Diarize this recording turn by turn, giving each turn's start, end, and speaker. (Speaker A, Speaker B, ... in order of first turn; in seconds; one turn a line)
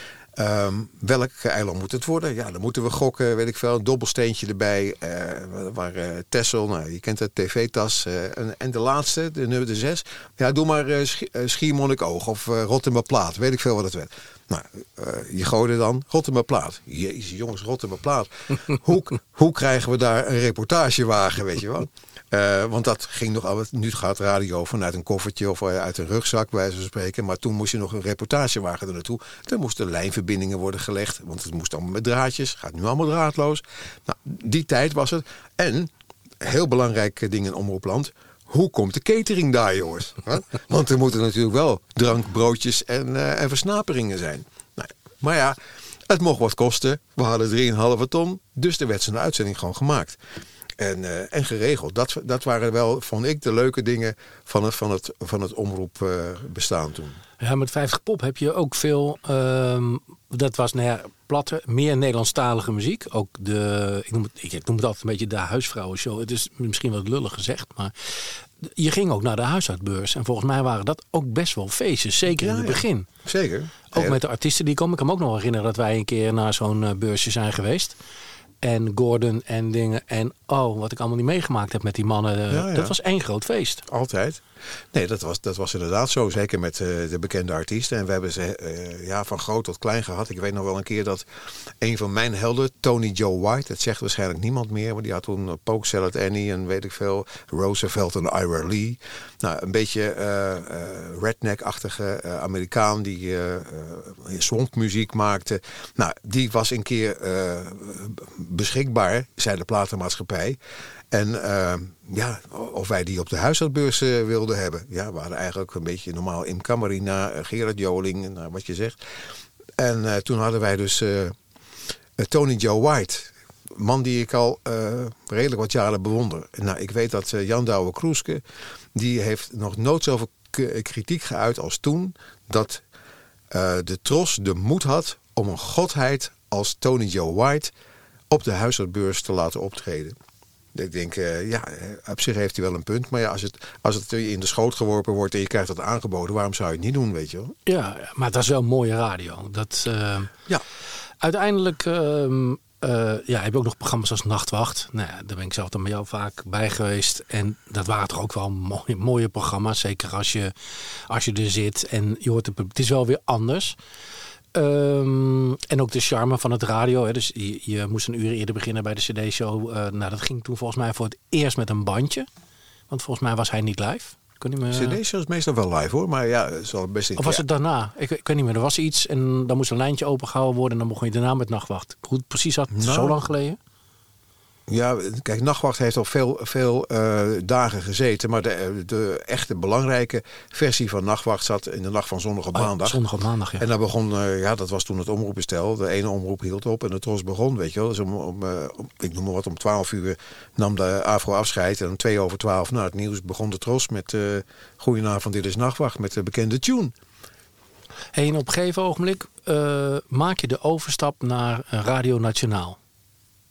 Speaker A: 0.4-45.6
Speaker A: 46.1-50.2
Speaker A: 50.8-57.2
Speaker B: 57.4-73.1
Speaker A: 72.4-74.2
Speaker B: 73.9-78.0
Speaker B: 78.6-83.8
Speaker A: 82.5-82.9
Speaker A: 83.9-84.4
Speaker A: 84.9-91.2
Speaker A: 91.8-110.6
Speaker A: 111.1-119.0
Speaker A: 119.8-121.3
Speaker A: 122.2-128.4
Speaker A: 128.9-132.8
Speaker A: 133.5-137.7
Speaker A: 138.3-140.2
Speaker A: 140.7-147.6
Speaker B: 147.7-150.3
Speaker B: 151.2-163.8
Speaker B: 164.5-172.3
Speaker B: 172.9-175.0
Speaker A: 174.7-177.4
Speaker B: 177.2-183.6
Speaker A: 182.7-183.2
Speaker A: 184.7-193.0
Speaker B: 192.5-193.7
Speaker A: 193.6-206.9
Speaker B: 208.1-212.8